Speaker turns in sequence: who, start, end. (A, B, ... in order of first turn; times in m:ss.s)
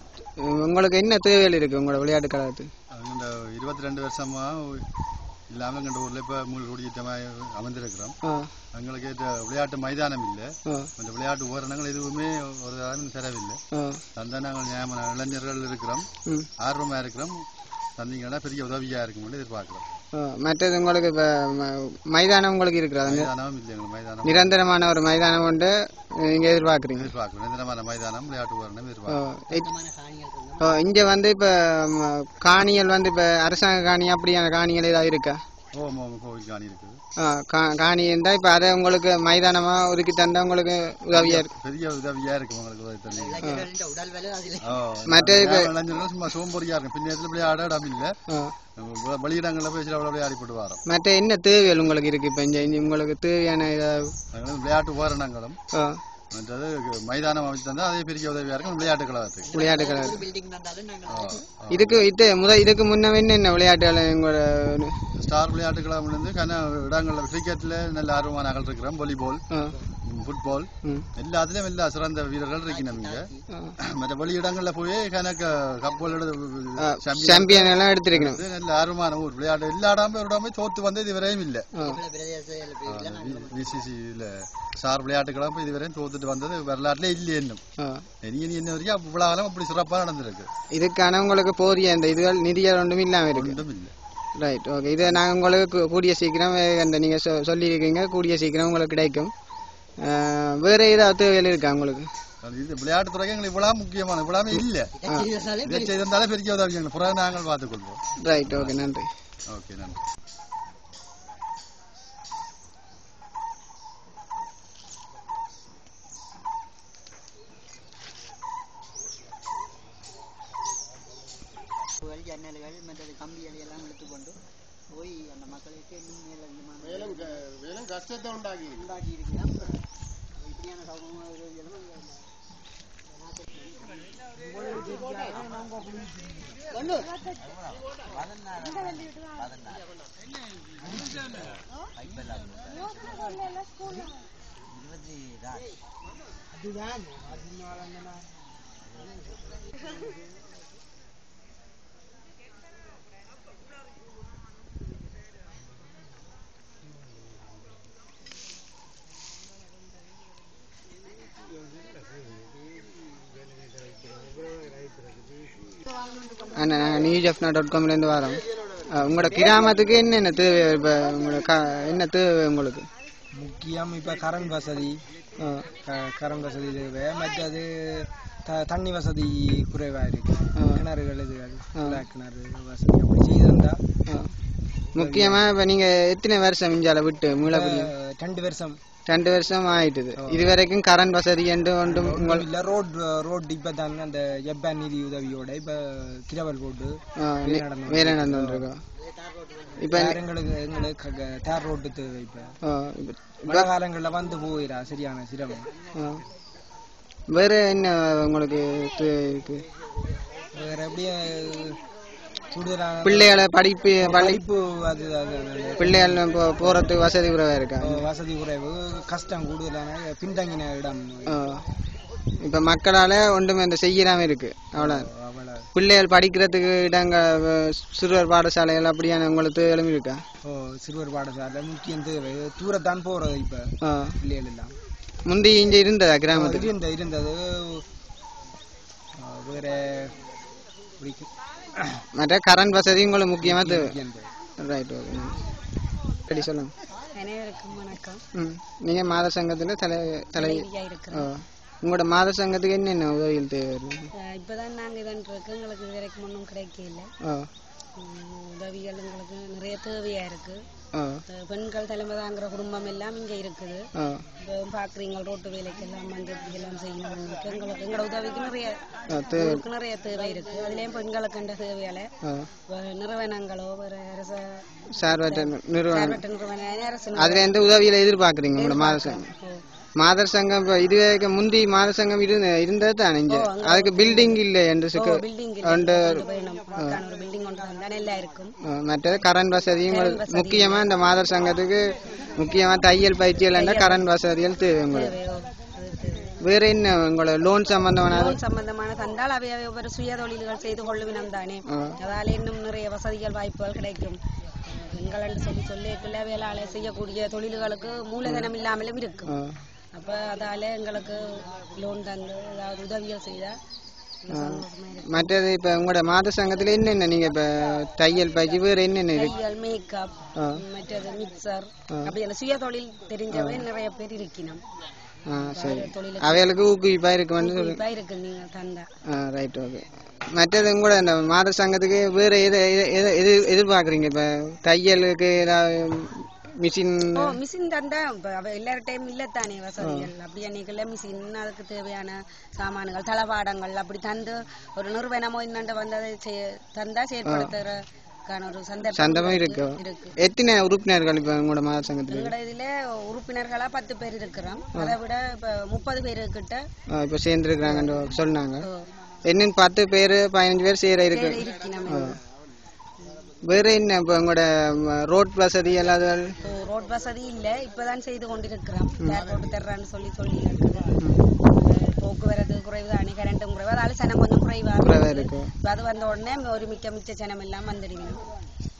0:00.4-0:02.7 A
0:02.9-0:04.8 B
0:05.5-0:08.1 B
0:08.2-0:08.5 A
0:08.7-0:13.6 B
0:13.7-0:14.0 A
0:14.2-0:16.1 B
0:16.6-0:17.4 B
0:18.0-0:20.0 B
0:20.1-0:23.3 A
0:23.0-0:24.5 B
0:24.2-0:27.1 A
0:26.9-0:29.2 B
0:29.1-0:29.7 A
0:29.5-0:30.8 C
0:30.6-0:35.4 A
0:35.7-0:37.0 B
0:37.2-0:41.5 A
0:41.1-0:43.5 B
0:43.0-0:44.8 C
0:44.6-0:48.2 B
0:45.1-0:45.7 A
0:48.3-0:48.5 A
0:48.8-0:50.8 B
0:50.9-0:54.1 A
0:54.3-0:55.6 B
0:55.7-0:56.0 A
0:56.3-0:59.6 B
0:59.4-1:01.5 C
0:59.5-1:00.2 A
1:01.1-1:02.0 B
1:01.7-1:05.0 A
1:05.2-1:09.4 B
1:09.5-1:09.8 A
1:10.0-1:13.3 B
1:12.6-1:13.4 C
1:13.8-1:21.7 B
1:15.8-1:16.2 C
1:16.8-1:18.4 A
1:21.7-1:22.0 A
1:21.8-1:23.9 C
1:22.8-1:27.6 B
1:27.8-1:28.0 A
1:28.2-1:30.5 B
1:30.7-1:33.6 A
1:33.3-1:33.9 B
1:34.4-1:39.3 A
1:40.0-1:42.1 A
1:42.4-1:44.9 B
1:44.5-1:46.1 C
1:45.6-1:48.8 B
1:48.2-1:49.1 A
1:49.5-1:50.0 B
2:02.0-2:04.4 C
2:04.9-2:07.4 C
2:06.8-2:08.9 D
2:08.7-2:09.8 C
2:10.4-2:12.3 C
2:13.0-2:15.4 C
2:16.7-2:19.8 C
2:20.8-2:23.3 C
2:24.7-2:25.7 C
2:28.8-2:29.3 C
2:46.5-2:52.9 A
2:53.3-2:55.0 E
2:55.4-2:55.7 A
2:55.7-3:03.8 E
3:00.6-3:00.8 A
3:04.1-3:04.3 A
3:04.9-3:05.4 E
3:04.9-3:07.9 A
3:07.5-3:08.8 E
3:09.1-3:12.4 A
3:10.2-3:10.5 E
3:11.8-3:18.6 E
3:17.2-3:18.8 A
3:18.9-3:20.0 C
3:19.8-3:20.2 A
3:19.9-3:22.6 E
3:22.6-3:23.7 A
3:23.4-3:25.7 E
3:25.9-3:26.2 A
3:27.3-3:29.6 A
3:30.5-3:31.8 E
3:32.5-3:33.4 E
3:33.0-3:34.4 A
3:34.0-3:36.9 E
3:35.8-3:38.0 A
3:37.8-3:41.4 E
3:41.3-3:41.6 A
3:42.4-3:45.1 A
3:44.8-3:45.7 E
3:45.7-3:50.2 A
3:50.4-3:54.8 E
3:53.8-3:54.2 A
3:55.2-3:56.7 A
3:56.3-3:57.8 E
3:59.2-4:00.1 E
4:01.0-4:02.0 E
4:02.2-4:03.9 A
4:03.4-4:04.3 E
4:04.6-4:05.4 A
4:06.3-4:06.7 A
4:07.1-4:08.2 F
4:08.3-4:14.1 A
4:10.4-4:11.3 F
4:14.2-4:17.1 F
4:17.2-4:17.5 A
4:18.0-4:20.6 F
4:21.0-4:21.2 A
4:21.3-4:23.8 F
4:24.0-4:24.2 A
4:24.4-4:28.7 F
4:29.1-4:29.6 A
4:29.4-4:32.1 F
4:32.7-4:34.6 F
4:35.0-4:36.2 A
4:35.2-4:37.6 F
4:37.2-4:39.3 A
4:38.6-4:39.6 F
4:40.0-4:46.2 A
4:43.3-4:44.4 F
4:44.9-4:48.5 F
4:46.8-4:47.0 A
4:48.6-4:55.1 A
4:49.9-4:50.8 F
4:53.5-4:54.0 F
4:54.9-4:56.3 F
4:56.4-4:58.4 A
4:58.1-5:04.2 F
5:01.7-5:02.0 A
5:04.7-5:09.4 F
5:08.2-5:08.5 A
5:09.3-5:09.6 A
5:09.9-5:13.6 F
5:14.2-5:15.1 F
5:14.3-5:19.4 A
5:19.1-5:24.6 F
5:20.4-5:20.6 A
5:23.3-5:23.6 A
5:25.3-5:27.8 A
5:25.4-5:26.6 F
5:27.4-5:28.9 F
5:29.1-5:37.4 A
5:37.1-5:47.8 F
5:39.8-5:40.1 A
5:47.2-5:47.5 A
5:48.3-5:50.1 F
5:48.9-5:52.3 A
5:52.1-5:56.6 F
5:56.9-5:58.7 A
5:57.6-5:58.7 F
5:59.2-6:02.2 A
6:01.1-6:02.2 F
6:03.4-6:06.3 A
6:06.4-6:10.9 F
6:11.4-6:18.2 F
6:14.8-6:15.5 A